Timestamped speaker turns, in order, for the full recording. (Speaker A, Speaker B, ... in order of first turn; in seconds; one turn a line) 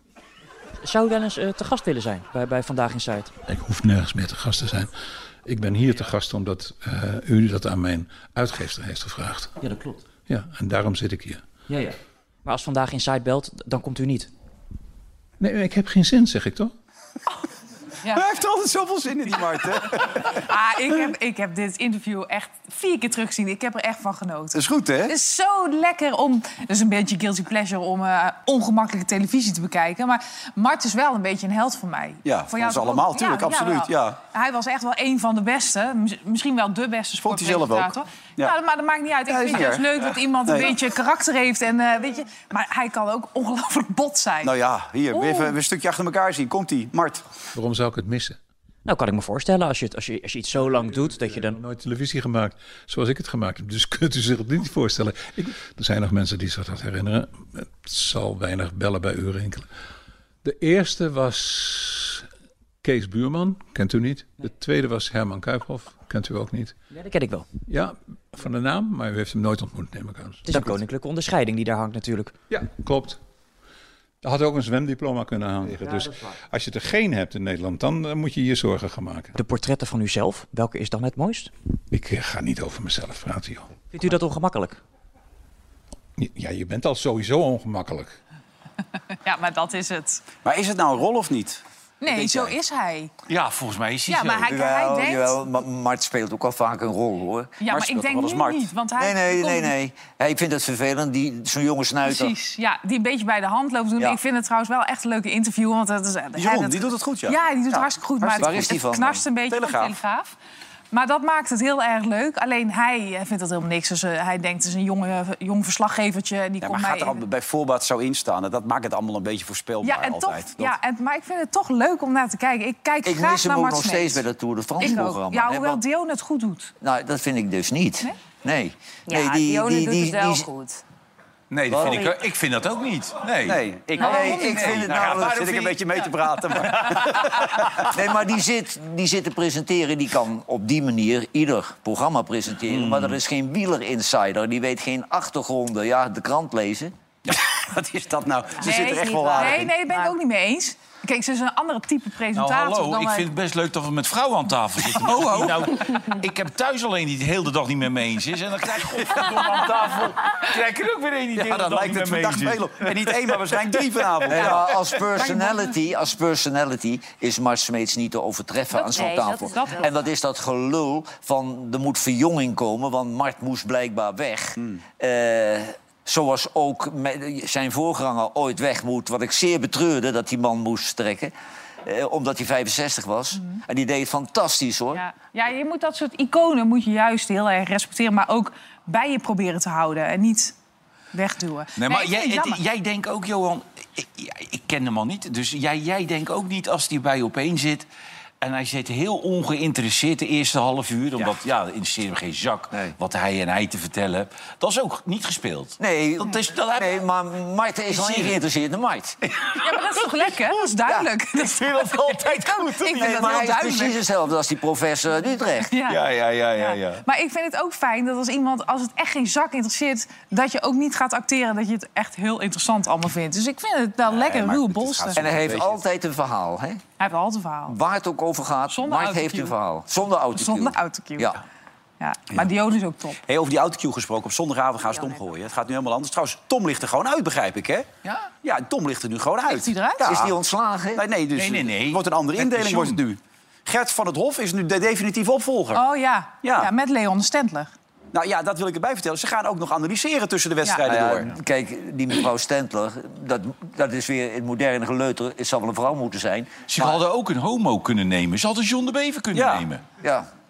Speaker A: 0.8-3.3
Speaker B: 3.5-4.9
Speaker B: 5.5-9.6
Speaker A: 9.6-10.0
Speaker B: 10.3-11.4
Speaker A: 11.7-14.3
Speaker B: 15.4-16.7
Speaker C: 18.1-20.4
Speaker D: 20.4-44.5
Speaker C: 24.5-25.1
Speaker C: 32.2-34.2
Speaker C: 37.2-38.6
Speaker C: 39.3-40.8
Speaker C: 44.4-47.2
Speaker D: 45.1-45.5
Speaker B: 47.5-48.4
Speaker A: 48.9-51.6
Speaker B: 50.8-59.7
Speaker B: 60.4-62.3
Speaker B: 62.8-66.8
Speaker A: 66.9-67.5
Speaker B: 67.7-70.8
Speaker A: 70.4-72.3
Speaker B: 72.5-73.2
Speaker B: 74.2-79.4
Speaker A: 75.8-76.2
Speaker A: 79.4-81.5
Speaker B: 81.9-83.7
Speaker A: 83.9-84.8
Speaker B: 86.2-88.1
Speaker D: 89.2-90.2
Speaker C: 90.4-92.5
Speaker D: 92.0-93.1
Speaker E: 93.3-94.5
Speaker D: 94.1-95.4
Speaker F: 94.5-97.6
Speaker D: 97.6-99.7
Speaker C: 97.7-98.7
Speaker F: 99.0-102.3
Speaker D: 102.1-110.3
Speaker C: 106.4-108.7
Speaker F: 108.4-109.2
Speaker C: 109.5-110.0
Speaker D: 110.9-117.2
Speaker C: 116.6-120.8
Speaker D: 119.8-124.2
Speaker F: 123.0-125.8
Speaker D: 124.8-126.7
Speaker F: 126.8-130.5
Speaker G: 129.1-130.8
Speaker E: 131.5-133.6
Speaker F: 131.7-132.1
Speaker C: 131.8-132.1
Speaker C: 133.5-137.8
Speaker D: 134.0-134.3
Speaker F: 134.0-135.7
Speaker E: 134.3-135.8
Speaker E: 136.6-137.3
Speaker F: 137.9-146.9
Speaker E: 142.7-143.2
Speaker C: 147.3-149.7
Speaker G: 148.6-150.2
Speaker D: 148.6-153.3
Speaker E: 152.3-162.9
Speaker C: 161.3-164.7
Speaker E: 164.3-164.5
Speaker F: 164.3-181.3
Speaker G: 168.7-170.0
Speaker F: 181.8-185.0
Speaker D: 184.9-190.5
Speaker D: 191.1-192.6
Speaker E: 191.8-197.9
Speaker E: 198.4-207.0
Speaker F: 205.8-209.2
Speaker E: 207.9-208.4
Speaker D: 209.6-213.9
Speaker E: 211.4-213.5
Speaker F: 213.0-215.7
Speaker D: 215.7-216.0
Speaker E: 215.9-217.0
Speaker D: 216.5-225.2
Speaker C: 224.6-225.7
Speaker F: 225.2-226.8
Speaker D: 227.0-227.8
Speaker F: 227.7-231.4
Speaker D: 228.7-229.5
Speaker D: 230.4-231.4
Speaker D: 232.0-233.2
Speaker C: 233.3-237.9
Speaker G: 234.9-235.3
Speaker E: 238.1-238.3
Speaker C: 238.4-240.3
Speaker D: 239.5-240.1
Speaker F: 240.0-241.0
Speaker C: 241.0-245.8
Speaker E: 241.3-243.0
Speaker D: 245.8-247.7
Speaker C: 246.4-246.7
Speaker C: 248.1-251.3
Speaker F: 250.8-256.9
Speaker E: 256.7-259.8
Speaker C: 259.3-259.6
Speaker F: 260.0-260.3